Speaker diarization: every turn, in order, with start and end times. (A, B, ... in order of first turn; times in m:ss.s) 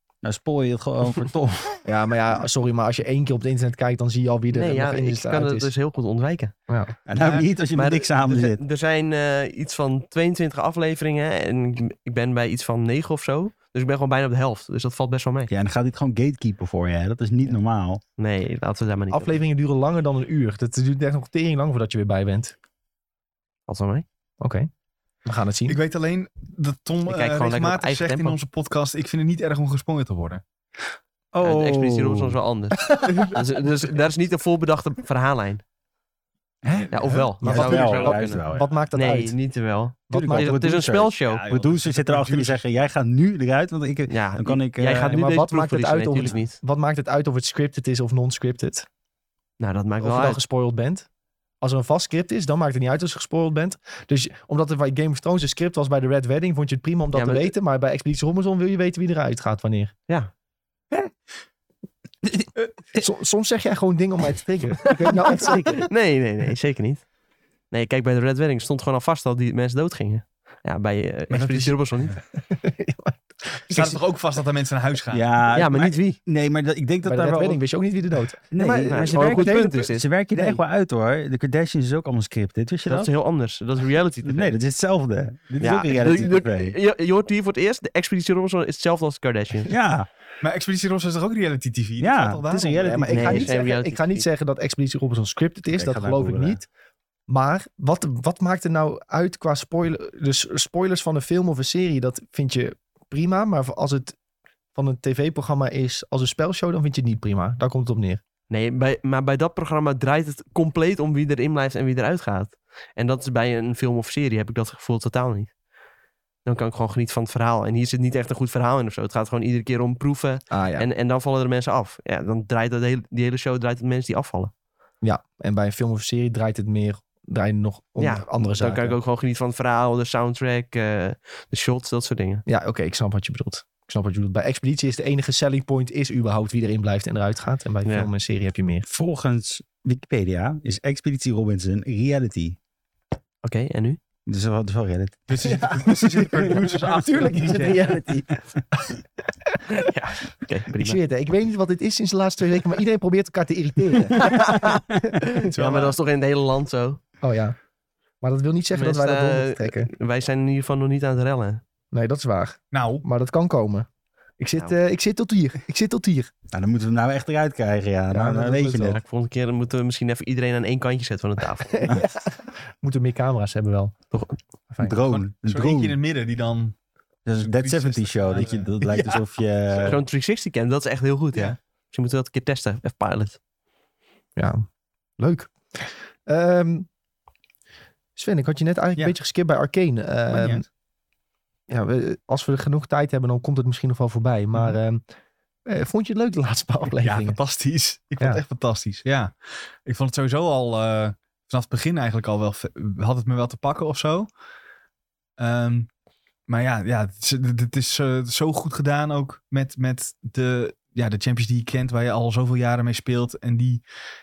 0:00.2-0:01.8 A
0:01.8-0:05.7 B
0:04.5-0:06.5 C
0:06.7-0:06.9 B
0:07.1-0:08.6 A
0:07.2-0:07.4 D
0:07.7-0:15.5 C
0:15.5-0:18.0 A
0:18.2-0:19.4 C
0:19.1-0:22.5 B
0:23.7-0:24.0 C
0:24.4-0:24.7 B
0:25.2-0:25.8 B
0:25.7-0:30.4 D
0:27.1-0:28.4 C
0:31.3-0:32.4 A
0:31.4-0:35.6 C
0:32.9-0:33.2 B
0:36.6-0:38.7 A
0:36.8-0:38.0 D
0:36.9-0:41.4 C
0:37.4-0:39.4 B
0:40.1-0:40.5 B
0:40.1-0:45.2 A
0:41.3-0:42.6 D
0:44.1-0:46.6 C
0:45.0-0:48.9 B
0:49.6-0:50.4 C
0:50.0-0:51.1 B
0:51.6-0:59.9 B
0:57.1-0:57.5 C
1:03.0-1:05.9 B
1:05.2-1:07.1 C
1:07.7-1:12.2 C
1:11.3-1:11.8 D
1:12.4-1:14.0 B
1:13.7-1:15.3 D
1:15.1-1:17.6 A
1:15.5-1:16.2 C
1:17.0-1:19.8 B
1:18.5-1:23.1 A
1:18.9-1:20.0 C
1:20.3-1:20.6 B
1:22.9-1:24.5 C
1:24.2-1:26.7 A
1:25.6-1:29.7 C
1:29.7-1:30.1 A
1:30.4-1:33.2 D
1:32.0-1:33.6 A
1:32.8-1:36.7 B
1:33.1-1:34.2 C
1:35.8-1:36.6 A
1:37.3-1:44.2 B
1:44.7-1:48.2 B
1:48.5-1:55.5 C
1:56.4-2:04.5 C
2:00.5-2:00.9 B
2:05.0-2:09.0 B
2:08.0-2:12.4 C
2:12.5-2:18.9 B
2:17.8-2:18.1 C
2:18.9-2:22.6 A
2:23.4-2:24.0 C
2:24.2-2:25.7 A
2:25.3-2:27.9 D
2:25.4-2:29.6 B
2:29.7-2:31.0 C
2:30.7-2:34.7 B
2:34.2-2:37.0 C
2:35.5-2:36.0 D
2:37.2-2:37.6 B
2:38.2-2:39.9 B
2:38.7-2:41.6 C
2:41.9-2:43.9 B
2:42.7-2:43.0 D
2:44.4-2:46.3 B
2:46.5-2:49.0 A
2:48.1-2:49.0 B
2:48.8-2:51.9 C
2:51.8-2:54.0 B
2:54.1-2:54.4 C
2:54.7-2:55.0 B
2:54.8-2:56.0 A
2:55.0-2:56.7 D
2:57.2-3:00.0 A
2:57.4-2:59.2 D
2:59.8-3:03.4 C
3:04.4-3:04.6 B
3:05.2-3:06.9 B
3:08.2-3:10.6 B
3:10.3-3:10.6 D
3:11.7-3:15.0 B
3:15.6-3:17.4 B
3:16.9-3:24.3 D
3:25.4-3:25.9 D
3:26.5-3:33.8 D